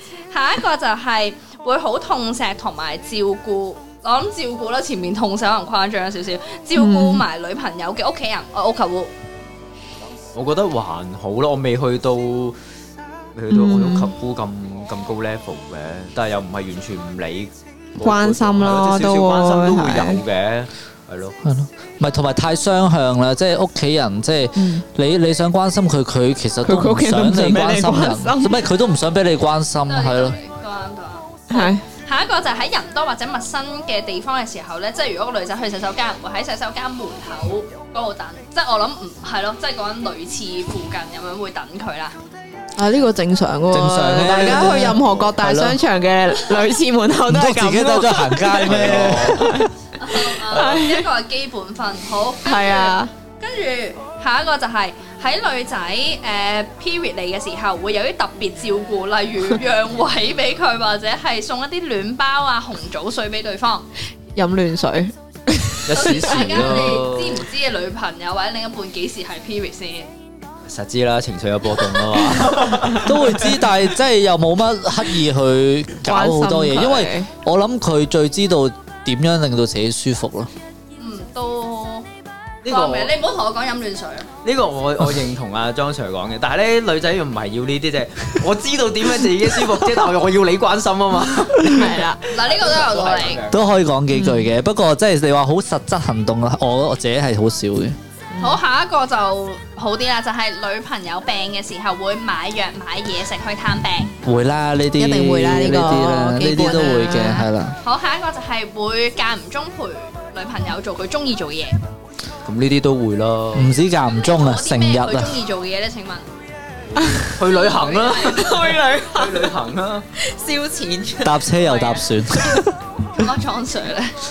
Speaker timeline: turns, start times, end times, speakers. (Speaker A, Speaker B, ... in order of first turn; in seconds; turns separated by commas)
Speaker A: 0.3-9.1, Speaker B: 6.7-7.2, Speaker C: 10.3-12.6, Speaker C: 13.3-21.4, Speaker B: 13.5-14.1, Speaker B: 18.0-20.2, Speaker D: 21.4-30.4, Speaker B: 24.6-24.8, Speaker B: 26.6-28.6, Speaker A: 29.9-42.1, Speaker B: 31.5-31.8, Speaker B: 42.8-49.7, Speaker D: 43.7-45.8, Speaker C: 44.2-45.2, Speaker D: 47.3-49.6, Speaker C: 48.6-49.5, Speaker A: 50.0-63.8, Speaker B: 50.4-51.0, Speaker B: 52.5-53.1, Speaker B: 64.3-66.5, Speaker C: 65.8-67.5, Speaker A: 65.9-70.1, Speaker C: 70.7-73.5, Speaker D: 73.0-80.5, Speaker B: 76.0-77.3, Speaker A: 81.0-82.1, Speaker C: 82.6-83.1, Speaker A: 82.7-84.3, Speaker C: 84.4-93.7, Speaker B: 91.4-92.2, Speaker A: 92.2-93.4, Speaker D: 93.5-98.0, Speaker B: 94.1-94.5, Speaker A: 98.4-104.1, Speaker D: 104.2-107.8, Speaker B: 105.0-107.4, Speaker A: 106.8-111.8, Speaker C: 112.4-113.7, Speaker D: 113.5-115.4, Speaker A: 114.0-116.3, Speaker B: 117.0-117.3, Speaker C: 117.3-120.0, Speaker A: 117.4-118.7, Speaker B: 118.1-119.5, Speaker B: 120.2-122.6, Speaker D: 121.2-122.7, Speaker A: 123.2-124.1